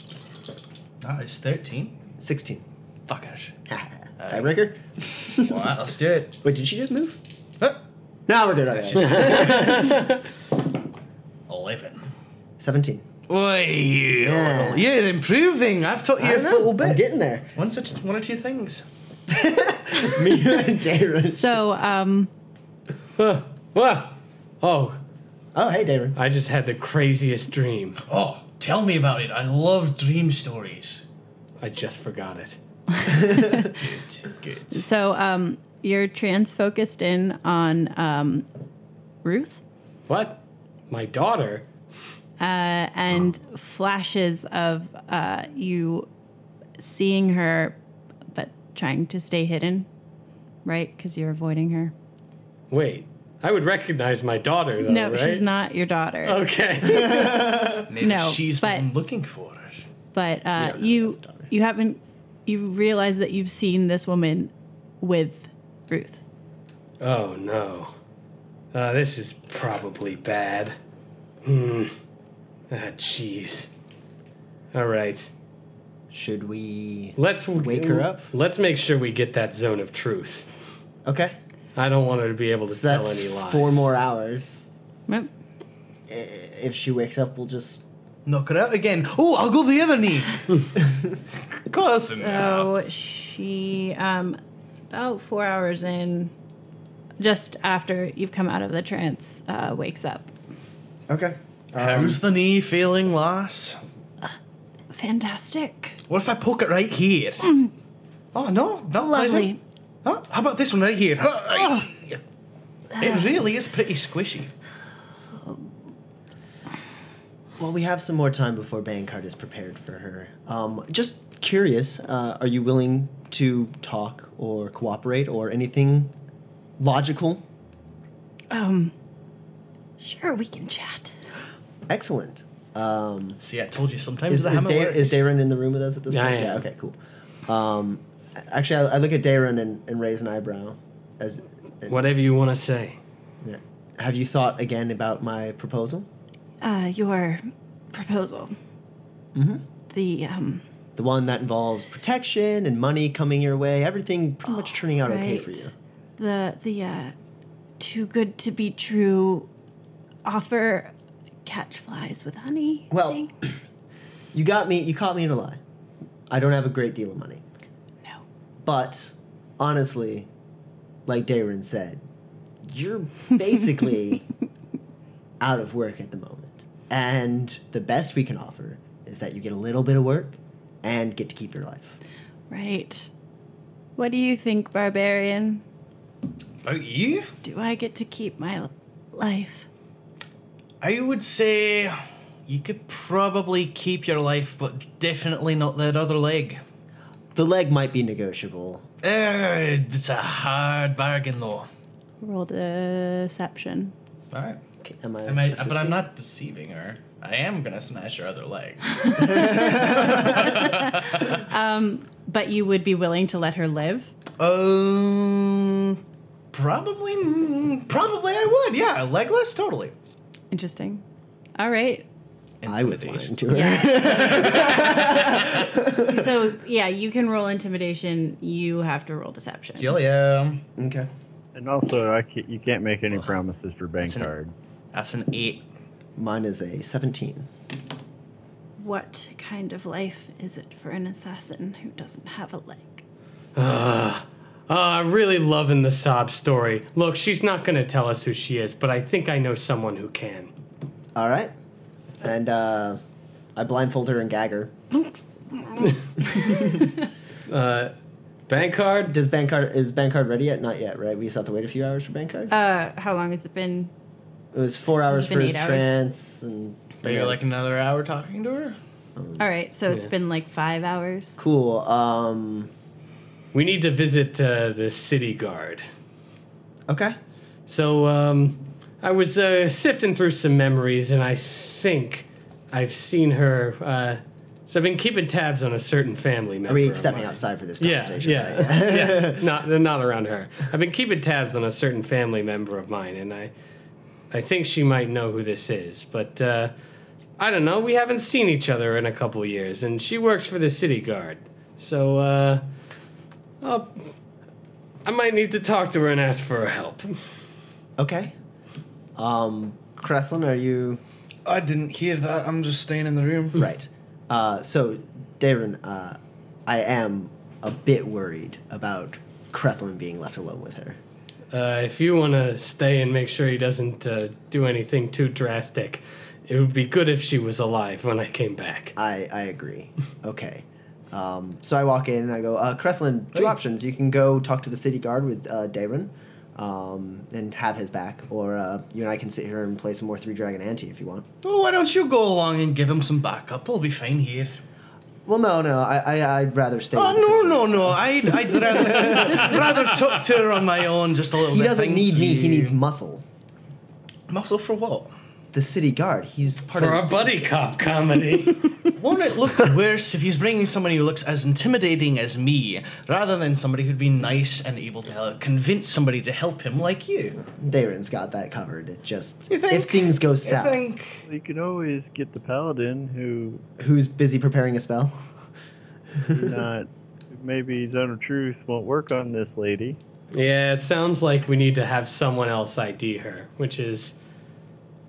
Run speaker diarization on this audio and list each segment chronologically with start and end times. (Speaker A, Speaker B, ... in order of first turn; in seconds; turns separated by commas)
Speaker A: 1.0-2.0, Speaker B: 2.2-2.6, Speaker A: 3.1-3.5, Speaker B: 3.7-5.6, Speaker A: 4.2-4.5, Speaker A: 5.4-6.4, Speaker B: 6.4-7.2, Speaker B: 8.3-10.1, Speaker A: 8.7-9.9, Speaker A: 11.5-12.0, Speaker B: 12.6-13.0, Speaker A: 13.3-17.0, Speaker B: 14.2-14.9, Speaker B: 16.2-17.5, Speaker A: 17.6-18.9, Speaker B: 19.3-21.6, Speaker C: 21.2-22.3, Speaker D: 23.2-25.0, Speaker B: 25.6-26.2, Speaker D: 26.2-28.0, Speaker A: 28.1-31.0, Speaker D: 31.6-32.6, Speaker C: 32.9-33.8, Speaker A: 33.6-34.8, Speaker C: 34.7-38.5, Speaker C: 39.2-39.6, Speaker D: 40.1-41.6, Speaker C: 42.4-46.1, Speaker C: 46.8-47.8, Speaker C: 48.3-49.9, Speaker C: 50.6-51.9, Speaker D: 52.7-55.5, Speaker C: 54.8-58.9, Speaker D: 56.2-57.5, Speaker B: 57.2-57.8, Speaker A: 57.9-59.9, Speaker C: 60.1-66.2, Speaker B: 60.6-61.5, Speaker D: 67.0-67.9, Speaker D: 68.7-70.8, Speaker D: 71.4-71.9, Speaker D: 72.7-73.7, Speaker D: 74.7-75.3, Speaker B: 76.1-78.3, Speaker D: 77.2-80.5, Speaker B: 81.1-81.4, Speaker D: 81.8-83.9, Speaker B: 82.7-84.8, Speaker B: 86.1-87.8, Speaker A: 88.3-90.8, Speaker A: 91.6-92.7, Speaker C: 92.2-94.4, Speaker C: 94.9-96.3, Speaker C: 97.2-100.3, Speaker B: 101.1-102.2, Speaker A: 101.8-103.8, Speaker C: 104.9-106.0, Speaker A: 106.1-107.5, Speaker C: 107.4-107.7, Speaker A: 108.3-112.2, Speaker C: 109.0-109.6, Speaker C: 113.0-113.3, Speaker A: 113.0-114.5, Speaker B: 117.6-126.1, Speaker B: 126.8-127.4, Speaker C: 128.5-128.9, Speaker C: 130.0-131.2, Speaker B: 131.9-133.4, Speaker A: 133.4-135.2, Speaker B: 134.3-142.0, Speaker D: 136.1-136.6, Speaker D: 141.9-143.0, Speaker B: 143.4-146.1, Speaker C: 146.6-148.6, Speaker B: 149.3-149.6, Speaker C: 149.9-150.6, Speaker B: 151.0-155.7, Speaker C: 154.5-157.2, Speaker C: 157.8-159.5, Speaker C: 160.2-160.9, Speaker C: 161.4-163.3, Speaker B: 162.9-163.5, Speaker B: 164.3-165.6, Speaker B: 166.3-167.4, Speaker B: 168.6-170.3, Speaker B: 171.1-172.0, Speaker B: 172.7-174.2, Speaker B: 175.4-182.0, Speaker C: 182.5-183.1, Speaker C: 184.0-185.6, Speaker A: 186.6-187.3, Speaker C: 187.4-189.7, Speaker A: 190.8-196.6, Speaker B: 197.3-198.8, Speaker A: 199.0-201.7, Speaker C: 202.2-203.9, Speaker A: 204.3-204.6, Speaker B: 204.8-206.1, Speaker A: 205.3-211.4, Speaker C: 208.9-214.1, Speaker B: 209.2-210.5, Speaker A: 214.4-216.0, Speaker A: 216.5-219.9, Speaker C: 220.5-221.0, Speaker C: 221.6-222.1, Speaker A: 222.6-225.7, Speaker B: 222.7-226.4, Speaker C: 223.5-224.4, Speaker C: 226.0-230.0, Speaker A: 229.8-230.6, Speaker B: 230.8-231.1, Speaker E: 231.6-234.5, Speaker A: 234.0-234.3, Speaker A: 234.9-235.7, Speaker B: 236.2-237.5, Speaker C: 238.8-243.0, Speaker D: 243.6-250.5, Speaker B: 251.2-251.5, Speaker B: 252.2-253.0, Speaker B: 253.6-254.7, Speaker D: 257.5-257.9, Speaker D: 258.5-259.1, Speaker B: 259.1-262.5, Speaker C: 262.5-263.9, Speaker B: 264.5-267.4, Speaker C: 265.1-265.9, Speaker A: 267.0-268.8, Speaker B: 269.2-269.4, Speaker C: 269.4-271.4, Speaker B: 271.4-272.7, Speaker D: 273.5-275.8, Speaker B: 276.9-277.2, Speaker D: 277.7-293.5, Speaker B: 286.7-289.5, Speaker D: 294.3-296.7, Speaker D: 297.4-302.6, Speaker D: 303.6-304.1, Speaker D: 305.1-307.1, Speaker B: 308.0-308.4, Speaker B: 309.2-311.0, Speaker A: 311.5-313.7, Speaker B: 313.6-321.0, Speaker D: 321.5-328.9, Speaker B: 329.0-341.3, Speaker A: 341.4-344.5, Speaker B: 345.3-349.8, Speaker A: 346.9-352.8, Speaker B: 351.5-353.2, Speaker A: 354.3-355.1, Speaker B: 355.5-357.4, Speaker D: 356.7-358.8, Speaker A: 358.9-367.5, Speaker B: 367.5-370.8, Speaker A: 369.5-371.2, Speaker E: 371.3-373.6, Speaker B: 373.8-375.1, Speaker B: 376.2-376.5, Speaker E: 376.3-380.0, Speaker D: 380.3-384.1